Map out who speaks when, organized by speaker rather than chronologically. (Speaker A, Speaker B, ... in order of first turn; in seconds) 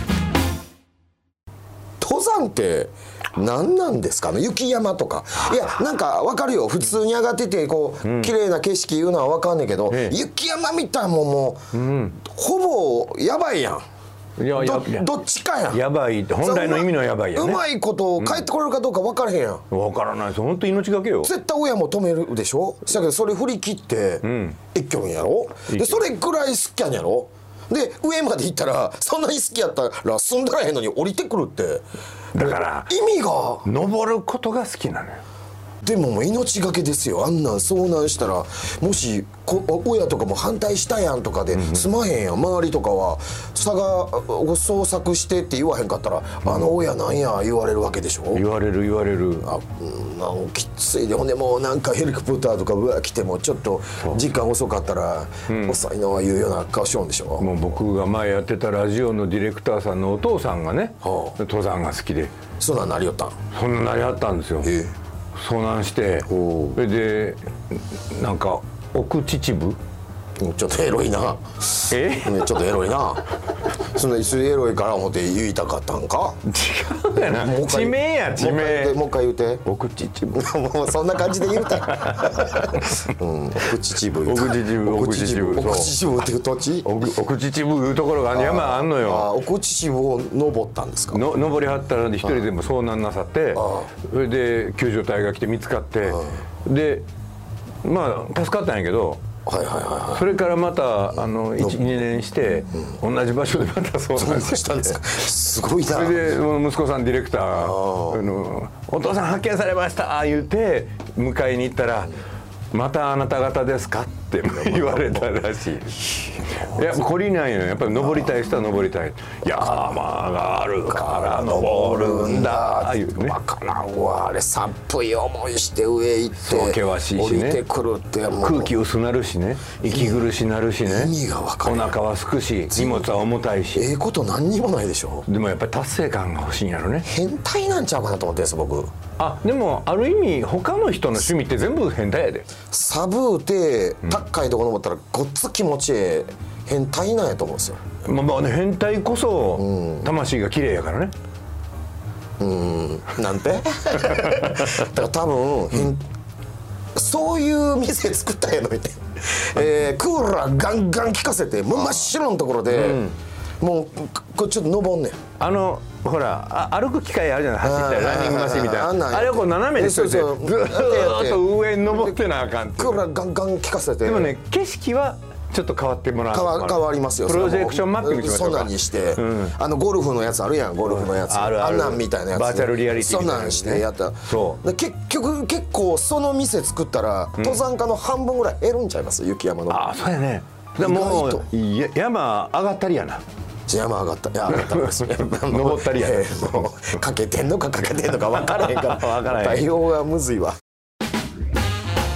Speaker A: 2.0-13.8, 14.5-15.8, 16.4-19.6, 21.2-31.8, 32.4-33.7, 35.8-48.5, 49.4-57.5, 61.0-61.4, 62.6-63.4, 64.6-64.9, 66.3-66.8, 70.4-76.4, 77.3-79.7, 80.3-87.0, 88.3-91.2, 93.6-93.9, 99.5-100.3, 101.6-102.0, 104.2-106.2, 107.5-108.2, 114.4-115.3, 120.8-128.8, 129.9-130.2, 130.8-132.0, 132.7-133.2, 133.7-135.3, 137.1-138.9, 142.7-147.8, 149.6-150.1, 152.4-156.0, 156.9-163.0, 163.6-165.2, 167.6-174.4, 176.3-189.9, 190.8-191.5, 193.7-200.6
Speaker B: 8.0-8.3, 9.9-10.2, 11.7-12.2, 14.4-15.1, 15.7-17.6, 18.2-18.4, 19.7-21.3, 24.2-24.6, 25.7-26.1, 32.4-33.0, 33.6-35.2, 41.5-41.9, 48.3-49.5, 55.5-55.8, 57.4-62.4, 63.5-64.7, 65.4-69.8, 71.9-72.5, 76.5-79.0, 79.7-80.5, 81.3-83.1, 84.2-86.0, 86.8-89.3, 91.1-97.1, 97.8-99.2, 100.2-105.0, 105.8-112.2, 112.7-123.4, 126.4-127.6, 128.4-133.9, 135.3-137.1, 139.2-142.5, 148.1-151.1, 162.7-163.2, 165.4-173.0, 174.0-179.6, 180.8-184.6, 189.7-193.2, 194.5-197.0, 198.0-199.7